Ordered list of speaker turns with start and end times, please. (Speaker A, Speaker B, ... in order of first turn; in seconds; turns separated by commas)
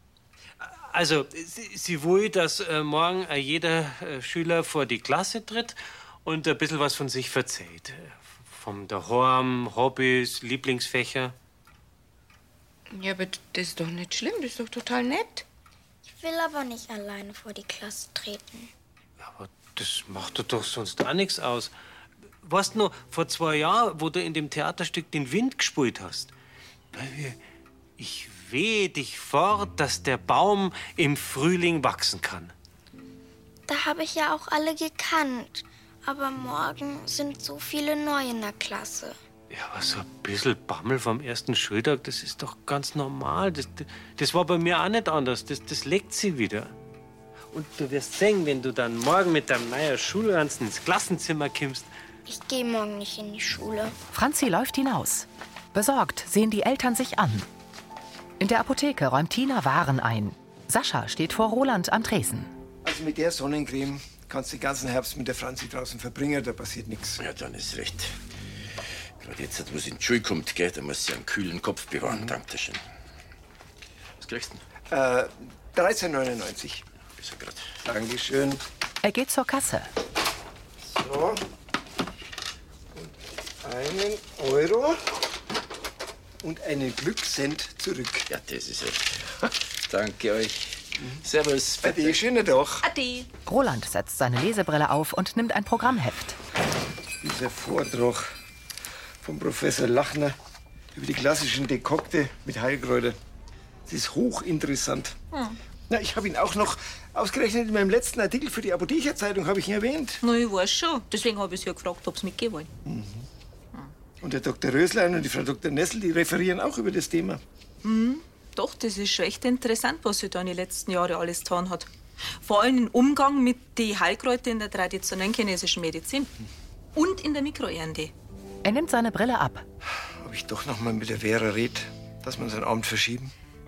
Speaker A: 0.6-11.3, Speaker B: 12.9-15.4, Speaker C: 16.1-18.7, Speaker A: 19.2-21.7, Speaker A: 22.4-26.3, Speaker A: 26.9-27.4, Speaker A: 28.0-32.5, Speaker C: 33.7-39.2, Speaker A: 39.5-46.7, Speaker A: 47.5-51.9, Speaker C: 52.3-54.0, Speaker D: 54.1-57.5, Speaker D: 58.4-62.5, Speaker E: 62.8-67.2, Speaker F: 67.2-68.1, Speaker F: 69.2-72.8, Speaker F: 74.2-74.6, Speaker E: 74.9-76.8, Speaker F: 77.2-77.7, Speaker E: 77.8-78.6, Speaker D: 79.0-79.9, Speaker E: 80.9-81.4, Speaker E: 83.6-85.0, Speaker E: 86.4-88.3, Speaker F: 88.3-89.1, Speaker F: 89.9-92.2, Speaker E: 91.8-92.8, Speaker G: 92.8-93.3, Speaker D: 93.5-96.4, Speaker E: 97.2-98.3, Speaker E: 99.2-100.3, Speaker E: 101.0-103.2, Speaker E: 103.9-105.2, Speaker E: 105.9-110.2, Speaker G: 110.2-112.7, Speaker E: 112.8-113.2, Speaker E: 114.2-117.4, Speaker G: 117.8-121.9, Speaker G: 122.4-126.3, Speaker G: 127.0-128.1, Speaker D: 128.7-129.6, Speaker E: 130.2-133.3